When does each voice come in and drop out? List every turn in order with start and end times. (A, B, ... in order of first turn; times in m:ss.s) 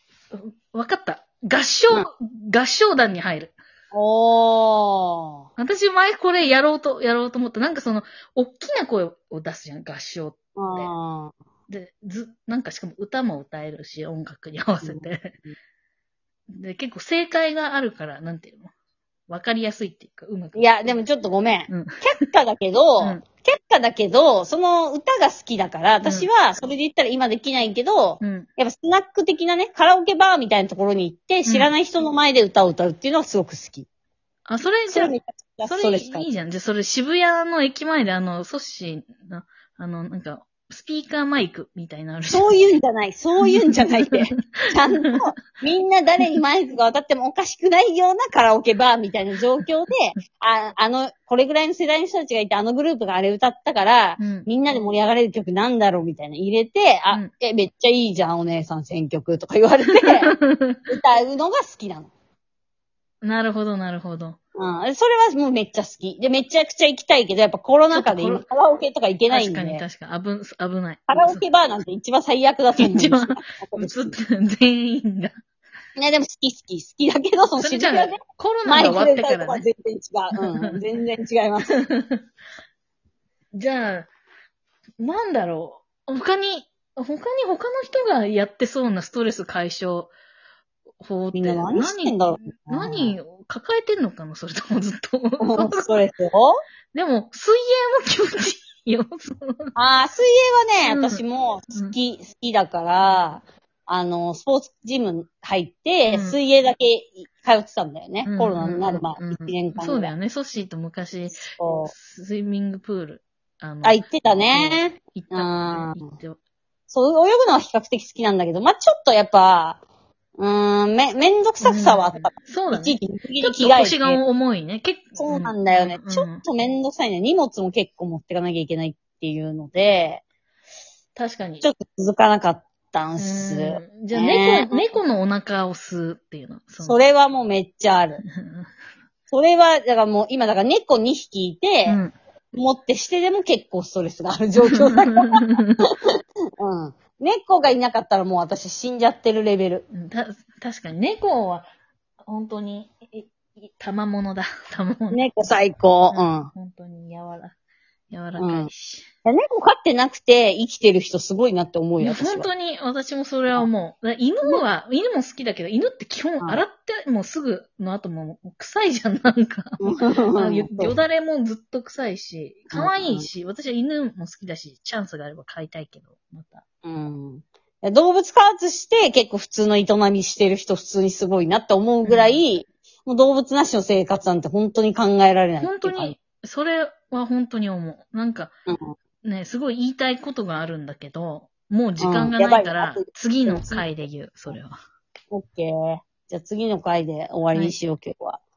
0:00.3-0:03.5 A
0:03.9-0:05.5 B
0:05.6-0:10.9 A
0:10.6-0:11.3 B
0:11.7-0:15.4 A
0:14.8-0:15.1 B
0:16.5-0:18.7 A
0:19.3-0:21.0 A
0:20.6-0:33.9 B
0:21.7-0:22.0 A
0:28.2-0:28.5 A
0:34.5-0:35.1 A
0:34.9-0:36.3 B
0:35.7-0:42.8 A
0:42.3-1:00.3 B
0:43.4-0:45.1 A
0:54.2-0:54.5 A
1:00.0-1:00.8 A
1:00.9-1:02.1 B
1:03.2-1:04.4 A
1:04.6-1:09.8 B
1:07.9-1:08.4 A
1:09.3-1:11.4 A
1:11.1-1:14.1 B
1:12.8-1:15.4 A
1:16.0-1:21.8 B
1:17.6-1:19.7 A
1:20.4-1:20.8 A
1:21.8-1:22.2 A
1:23.5-1:24.1 A
1:25.0-1:30.1 A
1:31.0-1:35.9 A
1:31.3-1:33.2 B
1:35.4-1:36.6 B
1:36.9-1:39.7 A
1:39.8-1:50.1 B
1:40.8-1:41.2 A
1:46.1-1:46.4 A
1:48.2-1:56.4 A
1:51.4-1:51.9 B
1:53.8-1:56.1 B
1:56.9-1:59.8 B
2:00.4-2:04.2 B
2:01.6-2:06.4 A
2:05.2-2:10.2 B
2:11.2-2:11.7 A
2:11.6-2:14.9 B
2:13.2-2:17.0 A
2:16.8-2:18.2 B
2:18.2-2:18.7 A
2:19.3-2:22.0 B
2:21.9-2:22.1 A
2:22.5-2:25.8 B
2:24.7-2:25.8 A
2:26.6-2:29.8 B
2:29.9-2:31.7 A
2:32.2-2:35.2 A
2:35.1-2:36.5 B
2:36.1-2:37.6 A
2:38.1-2:39.1 A
2:38.4-2:38.7 B
2:39.2-2:42.5 B
2:42.0-2:56.6 A
2:49.8-2:51.0 B
2:52.7-2:53.3 B
2:56.8-3:06.2 B
3:02.0-3:02.4 A
3:05.6-3:08.5 A
3:08.7-3:08.9 B
3:09.2-3:14.8 A
3:12.0-3:13.9 B
3:15.3-3:18.4 B